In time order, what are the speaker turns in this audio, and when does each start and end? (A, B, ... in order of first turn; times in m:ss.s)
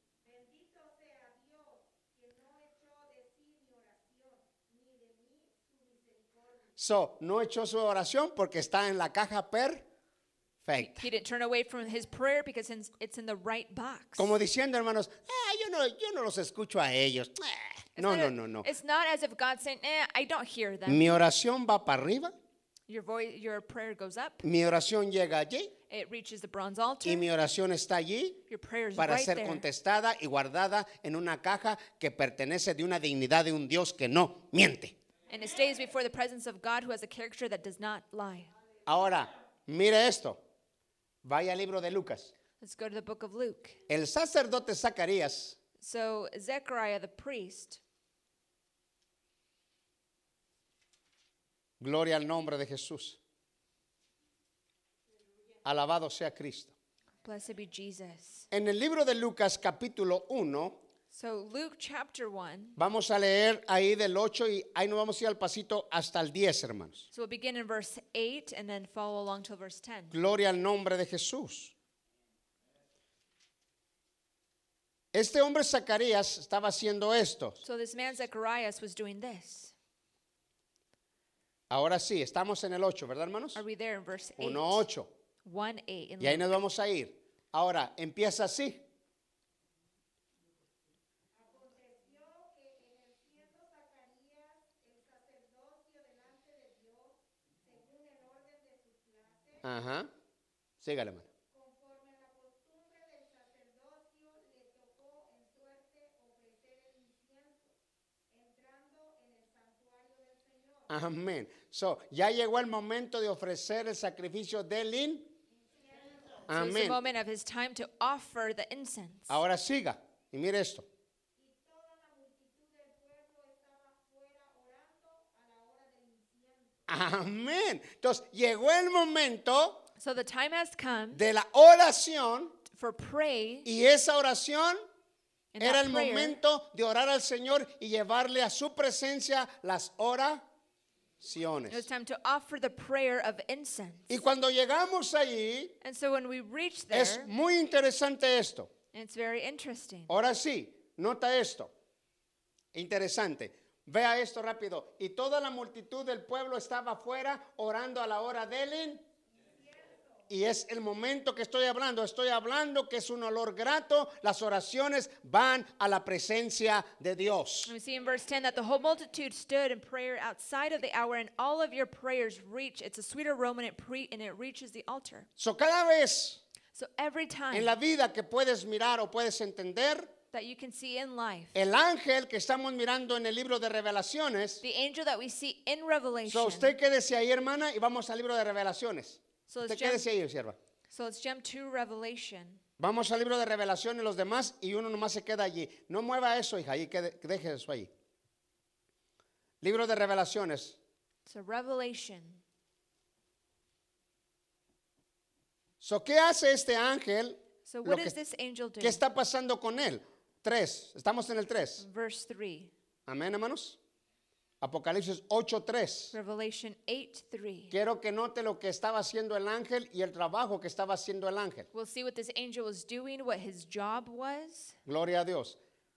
0:00.2-0:06.8 A
0:06.8-0:09.8 B
0:10.6-0:11.1 B
0:10.8-0:14.3 C
0:14.2-0:18.7 B
0:18.0-0:21.0 C
0:20.8-0:22.3 B
0:22.9-0:24.4 C
0:24.4-0:25.7 B
0:25.9-0:27.2 C
0:27.0-0:28.4 B
0:28.5-0:29.6 C
0:29.0-0:34.9 B
0:35.3-0:38.5 C
0:38.9-0:40.4 B
0:41.2-0:42.3 B
0:42.6-0:43.8 C
0:43.9-0:45.6 B
0:45.8-0:47.8 C
0:51.8-0:53.2 B
0:55.6-0:56.7 B
0:57.2-0:58.5 C
0:58.5-1:00.8 B
1:01.1-1:02.8 C
1:02.8-1:07.0 B
1:07.1-1:10.2 C
1:10.1-1:11.7 B
1:15.1-1:17.6 B
1:17.6-1:19.7 C
1:21.7-1:23.6 B
1:23.5-1:24.8 C
1:24.4-1:25.1 B
1:25.4-1:26.5 C
1:26.2-1:28.8 B
1:31.3-1:39.7 A
1:39.6-1:40.1 B
1:40.8-1:41.3 B
1:41.5-1:47.7 A
1:48.3-1:50.9 A
1:50.9-1:55.3 B
1:55.5-1:56.5 A
1:56.5-1:57.0 B
1:56.5-1:59.4 C
1:59.3-2:00.9 B
2:01.4-2:06.8 A
2:06.9-2:09.8 B
2:10.0-2:11.2 C
2:11.1-2:12.6 B
2:12.7-2:13.7 C
2:13.6-2:14.8 B
2:15.5-2:16.4 C
2:15.6-2:20.4 B
2:21.2-2:21.9 B
2:21.7-2:24.1 C
2:24.1-2:25.8 B
2:25.8-2:27.3 C
2:26.9-2:28.7 B
2:28.9-2:30.1 C
2:30.1-2:31.7 B
2:32.7-2:39.0 B
2:39.5-2:40.2 A
2:40.3-2:47.7 B
2:47.6-2:55.3 C
2:55.4-2:56.4 B
2:56.7-2:57.7 C
2:57.5-3:00.1 B
3:00.3-3:01.6 C
3:01.5-3:04.6 B
3:04.6-3:06.7 C
3:06.3-3:10.6 B
3:09.5-3:10.0 C
3:10.9-3:12.6 C
3:12.8-3:17.9 B
3:19.6-3:20.8 B
3:21.2-3:22.4 C
3:25.8-3:28.2 B
3:27.6-3:29.0 C
3:28.8-3:31.8 B
3:31.8-3:32.7 C
3:33.1-3:33.8 B
3:34.6-3:36.1 B
3:36.1-3:37.7 C
3:37.7-3:41.7 B
3:41.7-3:44.8 C
3:44.8-3:45.6 B